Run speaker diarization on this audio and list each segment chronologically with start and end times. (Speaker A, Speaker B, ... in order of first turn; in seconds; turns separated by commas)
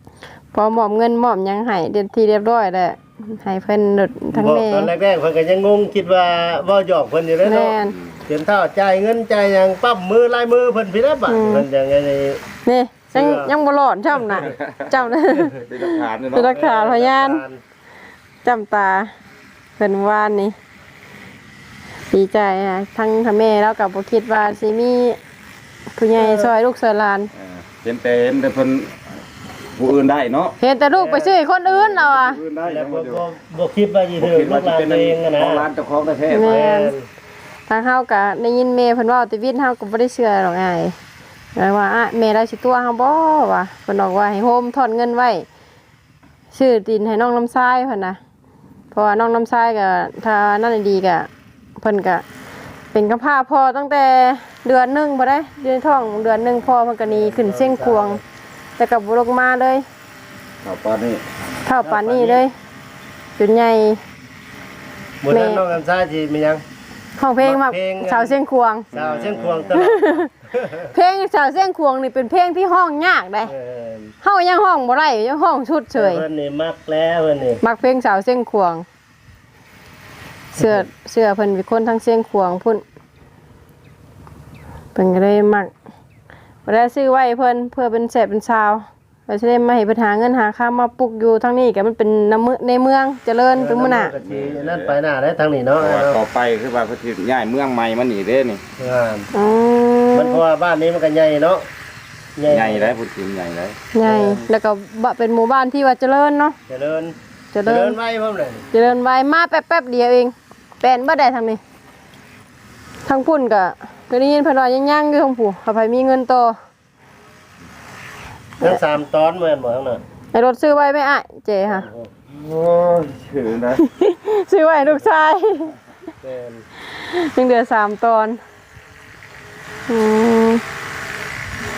Speaker A: 0.5-4.9, Speaker B: 4.3-12.4, Speaker A: 7.4-7.9, Speaker C: 7.8-8.2, Speaker A: 11.3-11.7, Speaker A: 12.6-17.4, Speaker B: 13.1-13.5, Speaker C: 14.4-14.9, Speaker C: 15.5-16.5, Speaker B: 16.4-17.6, Speaker A: 18.4-19.1, Speaker A: 19.8-20.5, Speaker A: 22.1-25.2, Speaker A: 25.9-27.3, Speaker B: 26.2-26.5, Speaker C: 27.3-29.0, Speaker C: 29.8-30.6, Speaker A: 30.6-32.4, Speaker B: 30.9-31.4, Speaker C: 31.6-33.2, Speaker B: 32.6-35.7, Speaker C: 34.2-36.6, Speaker A: 36.3-36.9, Speaker B: 36.4-37.1, Speaker A: 37.7-40.9, Speaker A: 41.5-45.5, Speaker A: 46.5-48.2, Speaker A: 48.9-52.2, Speaker A: 52.9-58.2, Speaker B: 57.0-58.2, Speaker A: 58.8-59.8, Speaker C: 60.6-61.2, Speaker A: 61.6-62.5, Speaker B: 61.8-62.4, Speaker A: 63.4-64.0, Speaker B: 65.2-66.6, Speaker A: 65.3-65.7, Speaker A: 67.2-68.9, Speaker B: 67.4-68.4, Speaker C: 68.9-69.8, Speaker B: 68.9-70.9, Speaker A: 69.8-70.3, Speaker A: 70.9-73.5, Speaker B: 73.5-74.1, Speaker A: 74.2-76.2, Speaker B: 75.9-77.6, Speaker A: 77.6-78.8, Speaker A: 80.5-82.8, Speaker B: 80.6-80.8, Speaker A: 84.9-85.7, Speaker A: 86.7-94.1, Speaker B: 93.5-96.2, Speaker C: 94.2-95.0, Speaker C: 95.8-98.6, Speaker B: 98.8-99.3, Speaker A: 99.3-100.4, Speaker B: 100.1-101.7, Speaker B: 102.4-103.0, Speaker C: 102.5-103.8, Speaker A: 103.9-106.5, Speaker B: 104.0-104.5, Speaker B: 106.7-108.6, Speaker A: 107.5-108.0, Speaker A: 108.7-111.6, Speaker A: 113.0-116.5, Speaker B: 118.6-120.0, Speaker A: 120.3-121.8, Speaker B: 121.7-122.1, Speaker C: 122.3-123.8, Speaker A: 123.8-125.7, Speaker B: 126.2-126.6, Speaker A: 126.9-128.4, Speaker A: 129.9-130.6